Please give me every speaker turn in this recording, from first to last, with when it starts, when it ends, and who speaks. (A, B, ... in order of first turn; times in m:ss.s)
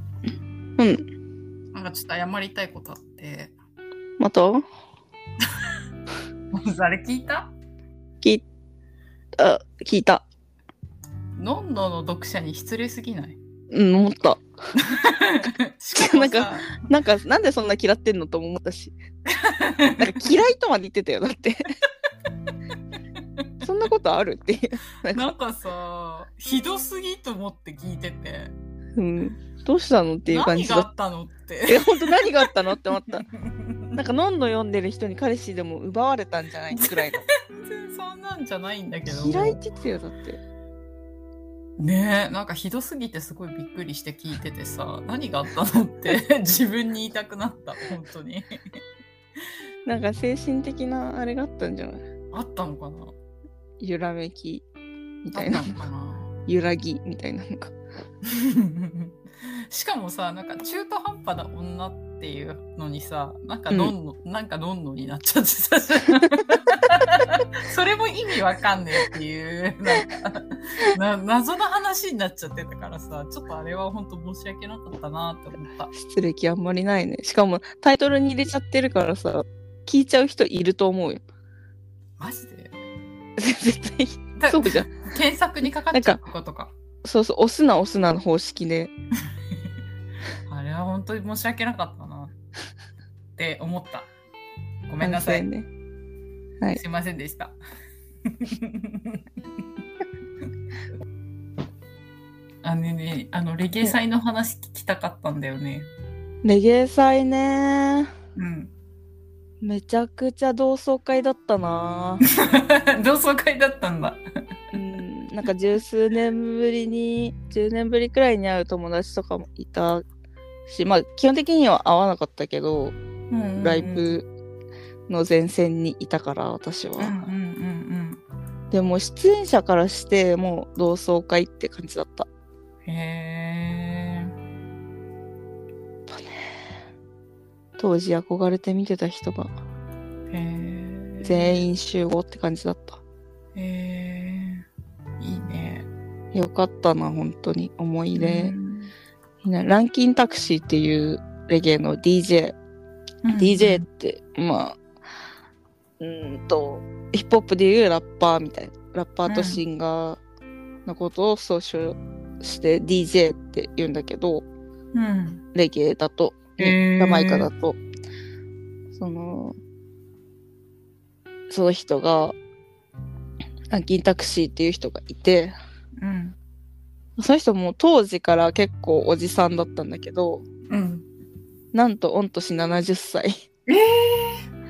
0:01.7-0:03.5 A
0:04.2-0:04.6 B
0:06.5-0:07.5 A
0:09.4-0:10.2 B
0:11.4-0:13.4 A
0:13.7-0:14.4 B
0:14.9-0:16.9 A
0:16.0-0:19.0 B
0:19.3-0:20.2 A
0:20.0-0:21.6 B
0:23.6-0:25.3 B
0:25.1-0:28.5 A
0:29.0-0:30.9 B
0:30.3-0:32.5 A
0:31.7-0:33.2 B
0:33.1-0:34.0 A
0:34.0-0:37.2 B
0:36.7-0:39.6 A
0:39.1-0:40.4 B
0:41.8-0:48.5 A
0:49.8-0:52.0 B
0:52.3-0:53.1 A
0:53.8-0:54.6 B
0:55.2-0:55.7 B
0:55.3-0:56.3 A
0:56.4-0:57.7 B
0:58.2-1:15.9 A
1:15.9-1:21.2 B
1:22.2-1:22.7 A
1:23.4-1:25.0 B
1:24.4-1:26.7 A
1:25.9-1:26.2 B
1:27.0-1:28.9 B
1:30.5-1:32.3 A
1:33.4-1:34.1 A
1:34.9-1:35.4 A
1:35.0-1:35.7 B
1:36.7-1:37.6 A
1:38.3-1:39.2 A
1:42.6-1:45.9 A
1:46.4-1:48.1 B
1:48.4-1:48.7 A
1:49.6-1:52.2 B
1:52.2-1:54.2 A
1:54.7-2:00.0 B
2:00.7-2:03.0 B
2:03.3-2:04.1 A
2:03.6-2:04.2 B
2:05.1-2:07.1 B
2:07.0-2:08.2 A
2:08.7-2:12.3 B
2:12.8-2:14.3 A
2:16.1-2:16.5 B
2:17.8-2:19.6 B
2:20.3-2:21.6 A
2:21.2-2:23.0 B
2:23.5-2:24.6 A
2:25.2-2:25.9 A
2:26.3-2:28.5 B
2:28.2-2:28.9 A
2:29.4-2:32.6 B
2:33.2-2:33.8 A
2:33.3-2:34.8 B
2:36.0-2:40.2 B
2:39.2-2:39.6 A
2:40.8-2:44.4 B
2:44.9-2:45.4 A
2:45.5-2:47.8 B
2:46.6-2:47.5 A
2:48.9-2:49.6 B
2:51.5-2:52.3 B
2:53.7-2:55.5 B
2:56.0-2:56.4 A
2:57.2-3:00.4 B
3:00.7-3:01.0 A
3:01.7-3:03.4 B
3:03.7-3:04.4 A